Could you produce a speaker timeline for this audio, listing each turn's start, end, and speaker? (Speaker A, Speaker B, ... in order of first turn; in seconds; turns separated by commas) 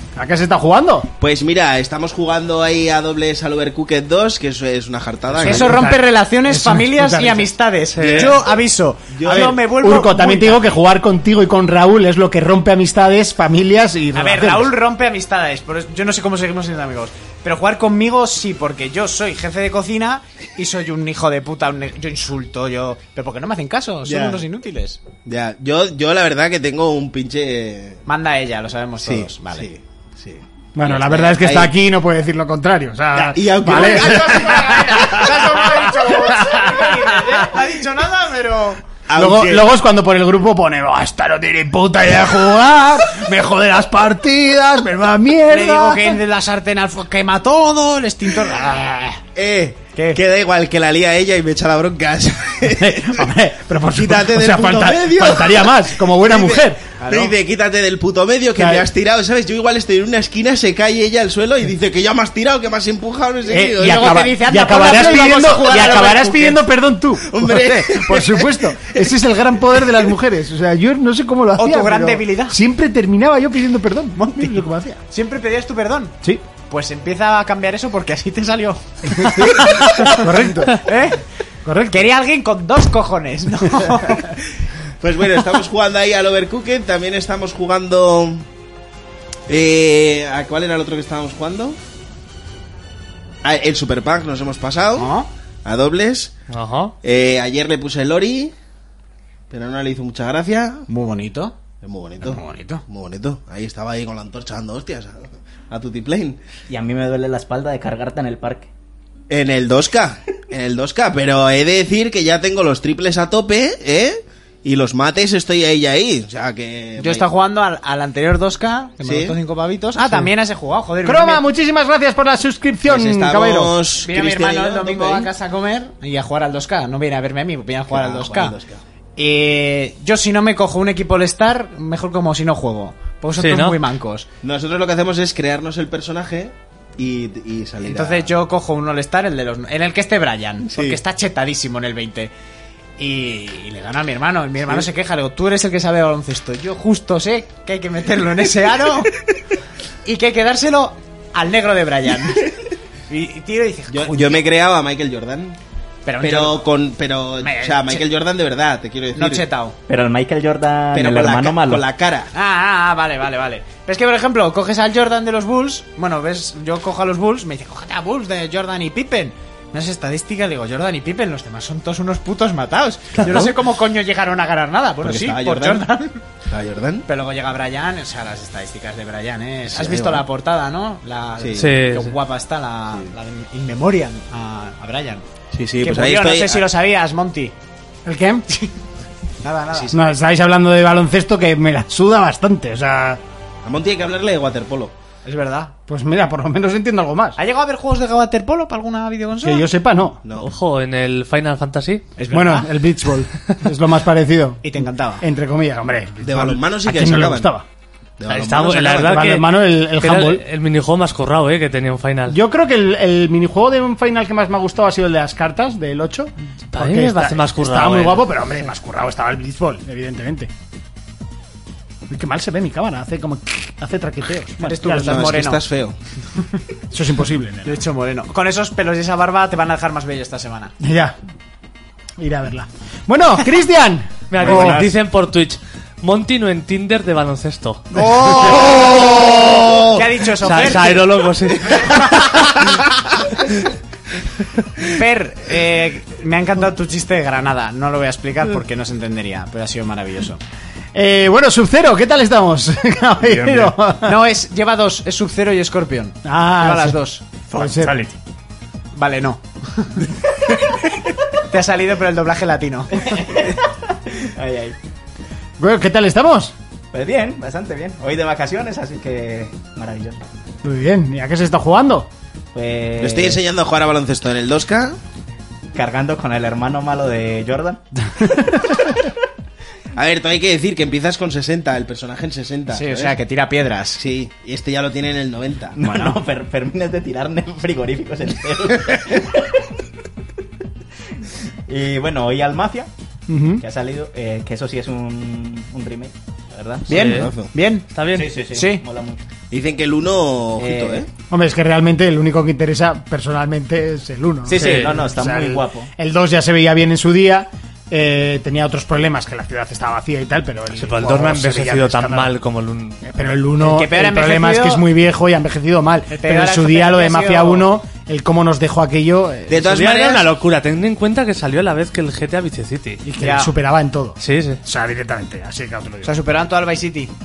Speaker A: 0.1-1.1, Speaker B: 1.2-5.8, Speaker C: 5.4-10.6, Speaker A: 5.4-7.5, Speaker D: 7.9-8.4, Speaker B: 8.0-8.4, Speaker B: 9.1-9.6, Speaker A: 9.3-14.7, Speaker C: 14.1-25.0, Speaker B: 24.1-24.4, Speaker B: 25.2-28.0, Speaker C: 28.1-29.7, Speaker B: 29.0-31.7, Speaker A: 30.8-37.5, Speaker B: 33.1-35.6, Speaker C: 33.6-38.8, Speaker B: 39.1-39.7, Speaker A: 39.1-46.2, Speaker C: 45.5-49.2, Speaker B: 49.3-53.3, Speaker C: 49.9-50.2, Speaker A: 52.7-56.8, Speaker B: 53.9-64.3, Speaker C: 57.0-57.3, Speaker A: 58.5-58.9, Speaker A: 63.5-75.0, Speaker C: 63.8-66.6, Speaker B: 64.9-66.2, Speaker B: 67.2-69.0, Speaker C: 71.5-72.6, Speaker C: 74.2-74.5, Speaker C: 75.1-76.2, Speaker C: 76.7-81.2, Speaker A: 79.2-80.8, Speaker A: 81.6-82.0, Speaker C: 81.9-84.3, Speaker B: 85.0-88.5, Speaker B: 89.5-91.8, Speaker B: 93.4-95.1, Speaker C: 95.0-95.3, Speaker B: 95.6-96.3, Speaker D: 96.5-96.9, Speaker B: 97.0-98.5, Speaker B: 99.5-100.8, Speaker C: 100.9-101.5, Speaker B: 101.8-106.4, Speaker C: 102.2-102.8, Speaker E: 106.7-108.7, Speaker B: 109.3-117.3, Speaker C: 117.0-121.4, Speaker B: 119.0-119.3, Speaker A: 121.0-123.8, Speaker B: 122.8-125.3, Speaker C: 124.0-128.6, Speaker B: 127.9-128.8, Speaker C: 129.2-134.3, Speaker D: 133.4-133.8, Speaker B: 134.4-138.3, Speaker C: 137.8-142.3, Speaker B: 140.7-141.0, Speaker C: 143.0-149.2, Speaker C: 150.0-152.5, Speaker C: 153.1-154.4, Speaker B: 153.9-155.6, Speaker C: 156.1-156.7, Speaker B: 156.2-159.4, Speaker C: 157.4-158.1, Speaker C: 159.1-159.7, Speaker E: 159.9-161.8, Speaker B: 160.9-162.3, Speaker C: 162.3-176.2, Speaker B: 175.0-175.8, Speaker B: 176.5-177.1, Speaker C: 177.1-185.2, Speaker B: 179.7-180.2, Speaker B: 181.4-181.8, Speaker D: 181.6-182.1, Speaker B: 185.5-186.7, Speaker C: 185.8-187.5, Speaker A: 188.0-188.5, Speaker C: 189.4-189.9, Speaker A: 189.9-193.2, Speaker B: 193.6-194.9, Speaker C: 195.2-195.7, Speaker A: 195.9-197.4, Speaker C: 197.4-199.7, Speaker A: 199.4-200.2, Speaker B: 200.2-200.5, Speaker D: 200.4-202.0, Speaker C: 202.2-202.7, Speaker A: 202.3-207.6, Speaker C: 204.6-205.2, Speaker B: 206.2-207.5, Speaker B: 208.2-209.3, Speaker D: 208.3-212.4, Speaker A: 209.0-210.4, Speaker A: 212.3-220.5, Speaker D: 216.7-218.2, Speaker A: 222.1-225.3, Speaker C: 224.6-225.6, Speaker B: 224.8-226.0, Speaker A: 226.9-227.8, Speaker C: 227.6-230.7, Speaker A: 230.8-231.2, Speaker A: 232.2-234.9, Speaker D: 234.3-237.9, Speaker B: 234.4-234.9, Speaker C: 237.9-241.1, Speaker B: 238.0-240.8, Speaker D: 240.4-242.3, Speaker C: 241.9-242.5, Speaker B: 242.4-242.9, Speaker C: 244.8-250.4, Speaker A: 250.9-254.2, Speaker C: 253.5-258.1, Speaker A: 256.2-257.0, Speaker A: 257.5-258.0, Speaker C: 258.9-260.1, Speaker C: 261.4-263.3, Speaker E: 263.0-264.8, Speaker A: 265.6-266.5, Speaker E: 266.9-270.2, Speaker A: 270.6-272.1, Speaker E: 272.5-273.4, Speaker B: 273.0-275.0, Speaker E: 275.7-278.3, Speaker B: 279.9-283.1, Speaker C: 282.7-284.0, Speaker B: 284.0-285.8, Speaker E: 285.7-289.6, Speaker C: 285.9-286.1, Speaker E: 291.6-292.9, Speaker A: 293.3-293.6, Speaker E: 293.6-297.0, Speaker B: 296.9-297.5, Speaker C: 296.9-297.9, Speaker D: 296.9-297.3, Speaker D: 297.9-298.3, Speaker E: 298.1-299.2, Speaker C: 298.5-298.8, Speaker B: 299.5-301.1, Speaker E: 300.6-301.1, Speaker A: 301.3-312.3, Speaker E: 304.5-305.9, Speaker D: 304.5-304.9, Speaker D: 310.8-313.0, Speaker A: 313.0-319.7, Speaker C: 313.6-314.8, Speaker C: 316.1-317.7, Speaker B: 319.5-320.3, Speaker D: 319.6-323.0, Speaker A: 323.0-326.2, Speaker C: 323.2-323.5, Speaker D: 324.2-324.6, Speaker C: 326.0-327.1